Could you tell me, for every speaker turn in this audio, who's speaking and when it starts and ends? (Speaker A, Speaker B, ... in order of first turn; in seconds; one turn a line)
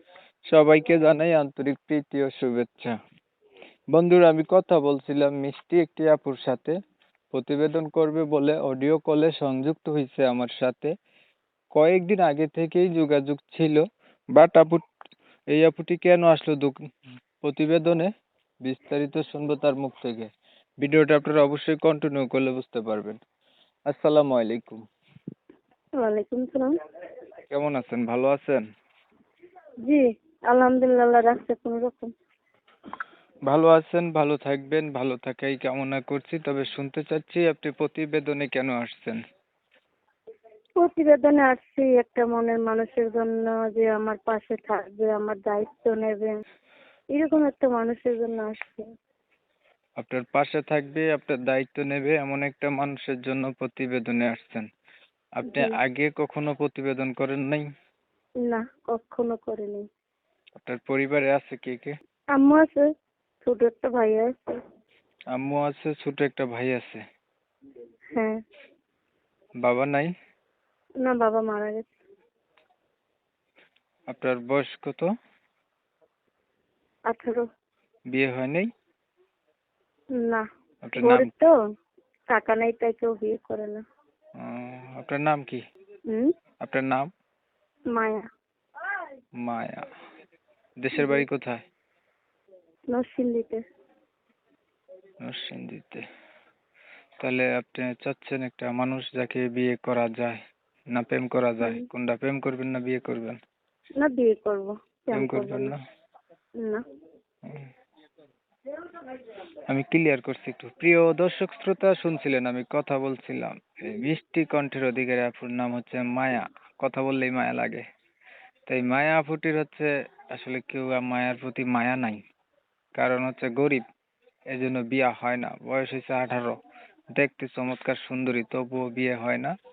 Speaker A: 0.5-3.0
Speaker A: 3.9-6.8
Speaker A: 7.3-10.9
Speaker A: 11.8-13.8
Speaker A: 14.3-14.8
Speaker A: 15.5-16.7
Speaker A: 17.4-18.1
Speaker A: 18.6-20.3
Speaker A: 20.8-23.2
Speaker A: 23.9-24.8
Speaker B: 26.0-26.7
Speaker A: 27.5-28.6
Speaker B: 29.9-32.1
Speaker A: 33.5-39.2
Speaker B: 40.8-46.4
Speaker B: 47.1-48.8
Speaker A: 50.0-54.7
Speaker A: 55.4-57.7
Speaker B: 55.4-55.7
Speaker B: 58.4-59.8
Speaker A: 60.6-61.9
Speaker B: 62.3-62.8
Speaker B: 63.4-64.5
Speaker A: 65.3-67.0
Speaker A: 69.6-70.1
Speaker B: 71.0-72.0
Speaker A: 74.1-75.1
Speaker B: 77.1-77.4
Speaker A: 78.1-78.7
Speaker A: 80.8-81.3
Speaker B: 81.0-81.5
Speaker B: 82.3-83.8
Speaker A: 84.4-85.6
Speaker A: 86.6-87.1
Speaker B: 87.9-88.2
Speaker A: 89.4-89.8
Speaker A: 90.8-91.6
Speaker B: 91.0-91.2
Speaker B: 92.9-93.6
Speaker A: 95.2-96.0
Speaker A: 97.2-100.4
Speaker A: 100.9-103.4
Speaker B: 104.0-105.7
Speaker A: 105.1-105.8
Speaker A: 109.7-117.8
Speaker A: 118.7-122.2
Speaker A: 123.0-123.8
Speaker A: 124.5-126.6
Speaker A: 127.1-129.5